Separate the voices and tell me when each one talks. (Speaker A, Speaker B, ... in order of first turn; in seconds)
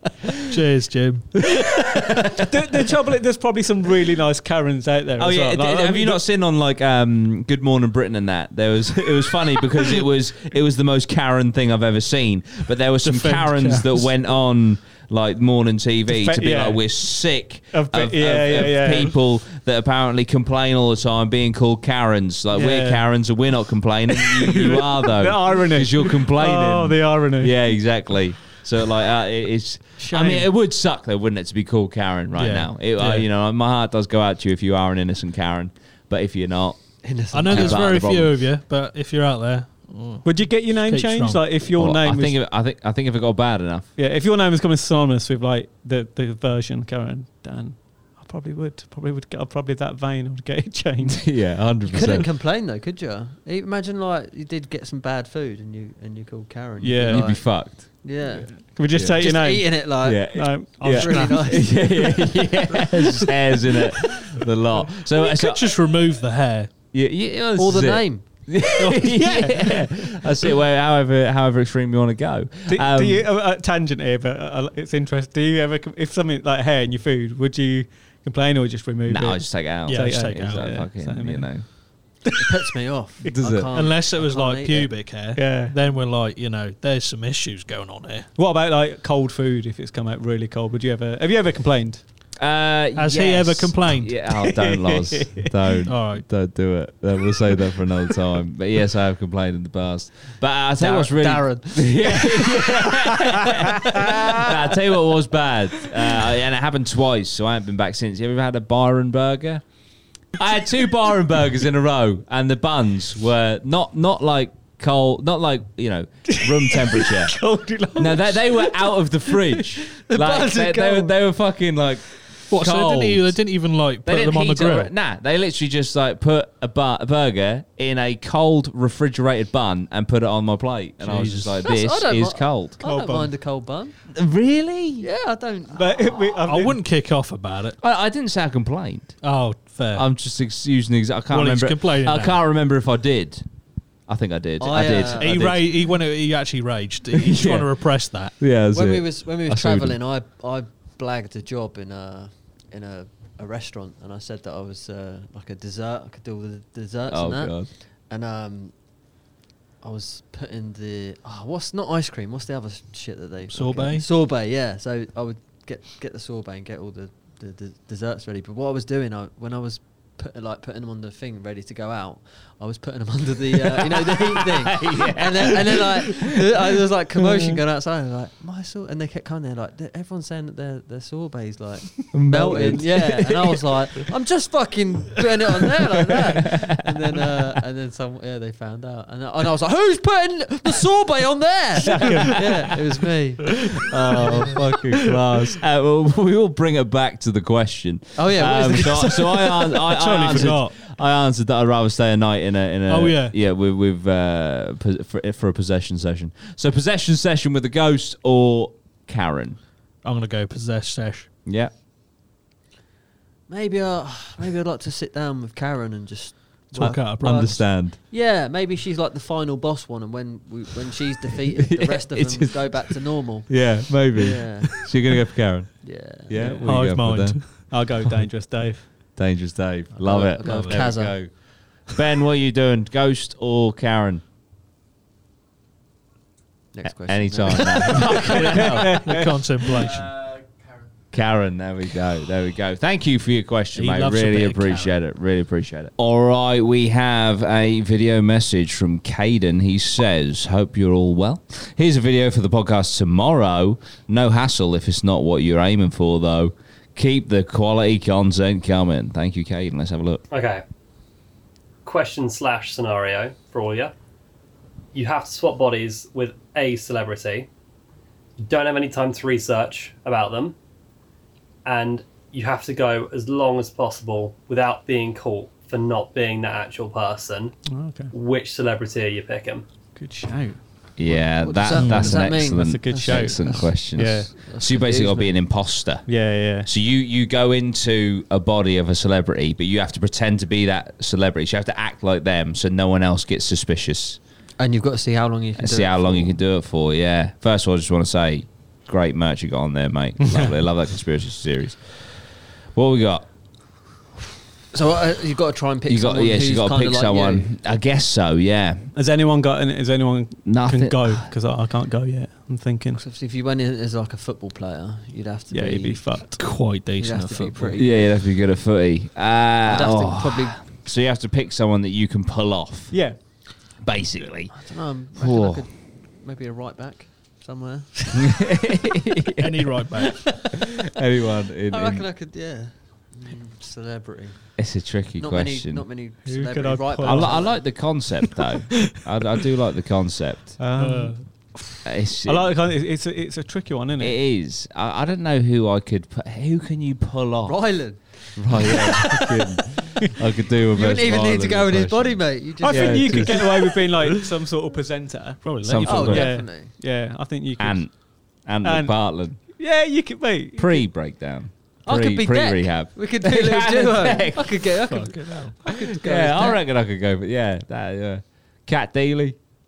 Speaker A: 0.5-1.3, 32.4-33.3, 37.3-41.6, 65.2-66.7, 79.8-80.8, 83.7-88.3, 93.0-94.1, 95.9-96.3, 122.5-124.9, 131.0-131.5, 136.4-137.8, 139.2-140.1, 141.3-142.4, 145.2-148.4, 163.5-164.1, 200.0-200.7, 202.9-203.3, 210.0-211.3, 216.8-217.7, 226.6-227.8, 230.4-231.0, 239.1-240.1, 243.8-244.9, 281.8-282.1, 316.4-317.8, 329.4-330.3, 340.8-341.2, 355.4-356.0, 364.9-365.5
Speaker B: 1.5-2.9, 5.2-38.3, 41.7-43.9, 51.0-52.3, 57.1-58.1, 58.9-59.2, 59.7-65.7, 66.9-73.3, 79.1-81.7, 83.2-83.7, 92.4-109.6, 110.4-117.4, 118.0-123.4, 124.0-132.8, 134.2-135.1, 137.8-139.3, 139.9-143.4, 144.1-145.6, 147.2-147.7, 148.4-150.0, 157.1-157.7, 173.8-176.2, 182.1-184.0, 193.9-209.6, 211.5-211.7, 216.8-218.0, 221.6-227.4, 229.2-234.2, 237.0-239.1, 241.1-260.2, 281.0-294.2, 295.6-302.2, 302.8-303.3, 305.9-308.9, 310.5-311.3, 317.8-325.6, 328.2-329.4, 330.9-332.1, 334.6-335.9, 337.0-340.6, 341.8-342.6, 344.0-353.5, 355.6-356.3, 357.6-359.4, 360.6-364.8, 365.7-369.4
Speaker C: 2.5-6.2, 13.0-14.1, 16.1-19.2, 22.5-23.1, 24.4-28.0, 30.0-30.5, 40.2-42.4, 44.0-51.2, 56.8-57.4, 58.5-62.1, 68.8-69.9, 72.7-81.7, 85.4-85.8, 88.4-92.0, 94.4-95.4, 116.5-119.4, 132.8-133.3, 135.7-136.8, 177.3-177.6, 191.8-192.4, 200.0-200.6, 226.3-226.6, 227.7-228.9, 238.7-239.3, 277.6-278.1, 280.0-280.6, 282.1-285.4, 286.1-286.7, 300.2-300.5, 308.9-313.0, 315.5-316.4, 322.9-323.8, 336.3-337.5, 340.6-344.2, 352.6-358.0, 358.6-360.9
Speaker D: 37.0-38.1, 51.9-62.1, 67.6-68.5, 82.4-85.0, 100.8-102.9, 120.0-121.2, 131.6-134.0, 135.0-136.0, 144.6-145.6, 148.7-158.7, 159.8-194.5, 198.2-200.5, 213.5-217.2, 218.0-224.9, 225.8-226.3, 230.0-231.3, 236.7-238.9, 281.1-285.3, 294.6-296.4, 304.7-307.5, 312.9-318.2, 319.6-320.7, 324.5-328.3, 331.7-334.5, 335.2-337.6, 347.5-349.0, 350.7-353.4, 355.9-356.7, 361.9-366.6
Speaker E: 260.3-260.6, 261.8-263.9, 264.9-267.5, 268.4-270.6, 271.6-277.6, 278.1-279.6